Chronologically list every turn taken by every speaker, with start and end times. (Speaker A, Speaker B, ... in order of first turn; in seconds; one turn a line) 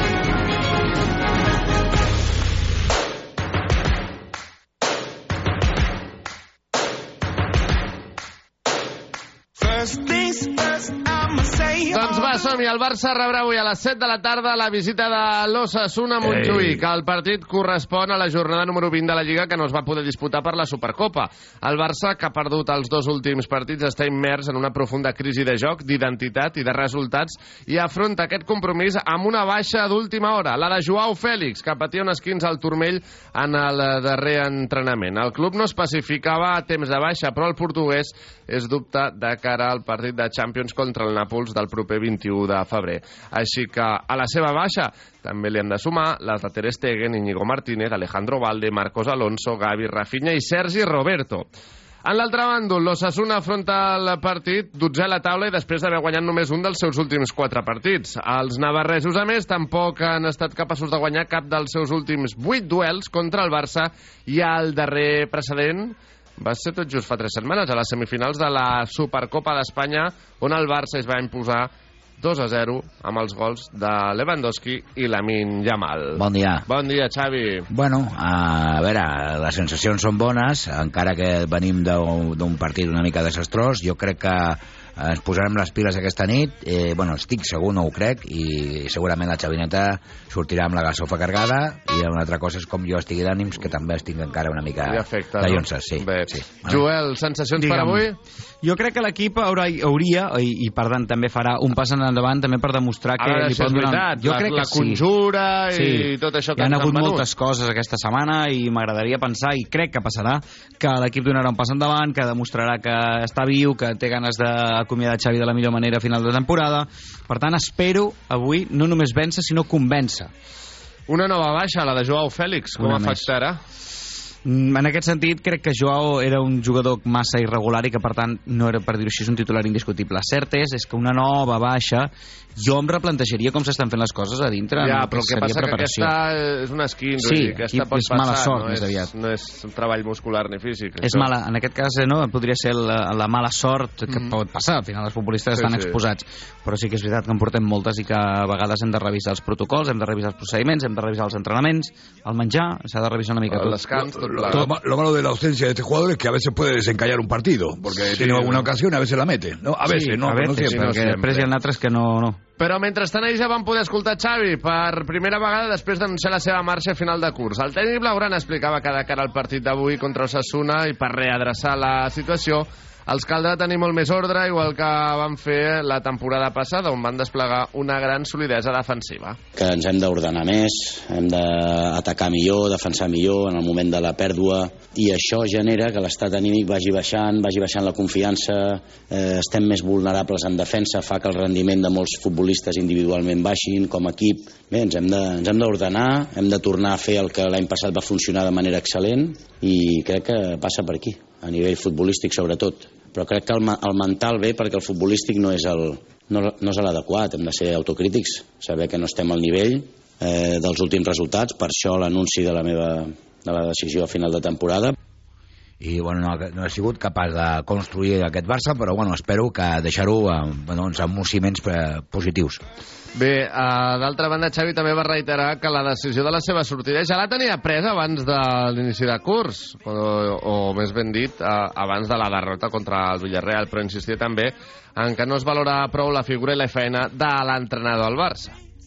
Speaker A: 9.9-12.1
Speaker B: 11.9-51.5
Speaker C: 16.2-16.8
Speaker B: 52.0-77.7
Speaker D: 76.2-76.6
Speaker D: 77.7-96.8
Speaker B: 94.9-98.2
Speaker E: 97.6-98.0
Speaker E: 98.6-105.0
Speaker B: 103.2-107.2
Speaker E: 105.7-120.3
Speaker B: 121.1-123.6
Speaker E: 122.8-123.3
Speaker E: 124.4-136.1
Speaker B: 134.8-141.3
Speaker E: 137.2-139.1
Speaker E: 141.0-153.8
Speaker B: 144.1-144.3
Speaker B: 145.5-145.9
Speaker B: 153.5-154.7
Speaker C: 154.2-161.0
Speaker B: 158.0-158.7
Speaker E: 159.8-162.4
Speaker B: 160.6-161.5
Speaker B: 162.6-179.4
Speaker F: 179.6-214.9
Speaker D: 215.8-222.6
Speaker B: 223.1-238.5